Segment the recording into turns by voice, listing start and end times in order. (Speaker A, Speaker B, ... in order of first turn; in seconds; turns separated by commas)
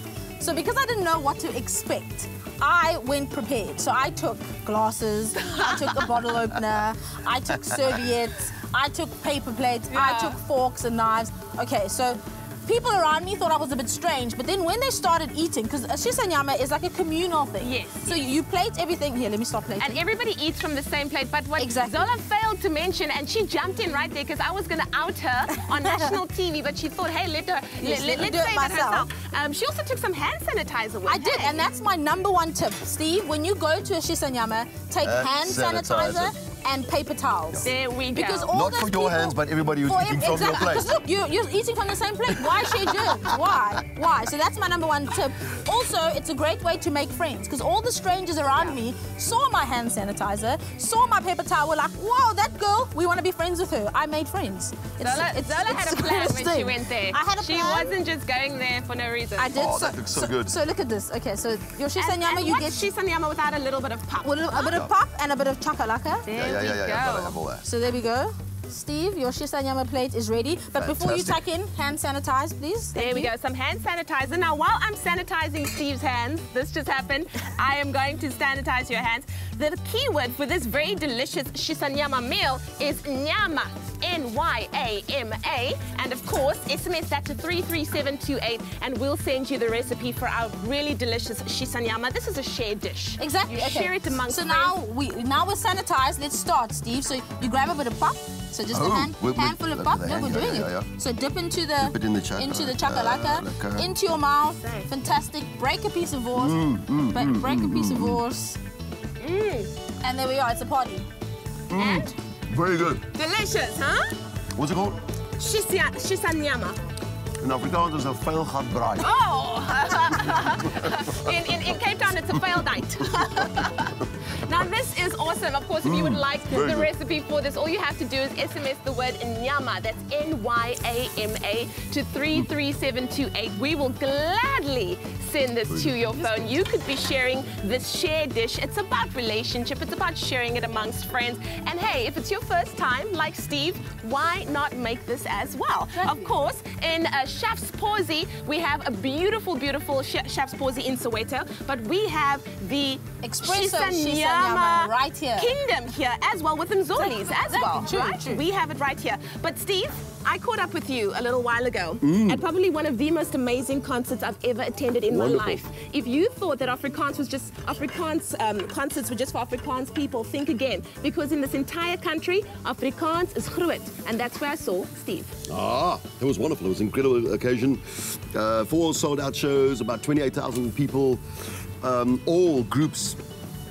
Speaker A: 0.4-20.0, Speaker B: 5.4-6.1, Speaker C: 7.7-8.0, Speaker B: 9.9-10.4, Speaker B: 17.6-18.3, Speaker B: 19.8-31.6, Speaker A: 21.6-22.1, Speaker A: 27.8-29.1, Speaker A: 31.1-58.0, Speaker C: 35.0-36.3, Speaker B: 37.6-38.5, Speaker C: 38.5-40.9, Speaker C: 42.5-43.4, Speaker B: 55.0-59.5, Speaker A: 59.4-62.9, Speaker C: 59.5-60.5, Speaker B: 62.0-64.8, Speaker A: 64.2-66.3, Speaker C: 64.6-64.9, Speaker B: 66.3-67.4, Speaker C: 66.3-67.7, Speaker A: 67.7-73.3, Speaker C: 70.8-71.4, Speaker B: 72.9-94.8, Speaker A: 93.2-108.6, Speaker C: 98.7-100.9, Speaker C: 101.8-103.9, Speaker B: 104.6-104.9, Speaker C: 106.3-108.2, Speaker B: 109.2-109.7, Speaker A: 110.0-111.1, Speaker C: 111.7-113.0, Speaker B: 111.8-112.1, Speaker B: 113.1-114.2, Speaker C: 114.5-115.0, Speaker B: 115.4-116.8, Speaker C: 117.4-119.1, Speaker B: 119.0-175.3, Speaker C: 120.5-121.1, Speaker C: 122.3-123.4, Speaker C: 125.8-126.9, Speaker C: 135.7-136.2, Speaker A: 145.9-146.3, Speaker A: 153.2-155.5, Speaker A: 157.0-158.4, Speaker C: 162.0-162.4, Speaker C: 165.1-165.6, Speaker C: 175.5-177.8, Speaker C: 178.3-181.2, Speaker C: 181.8-183.2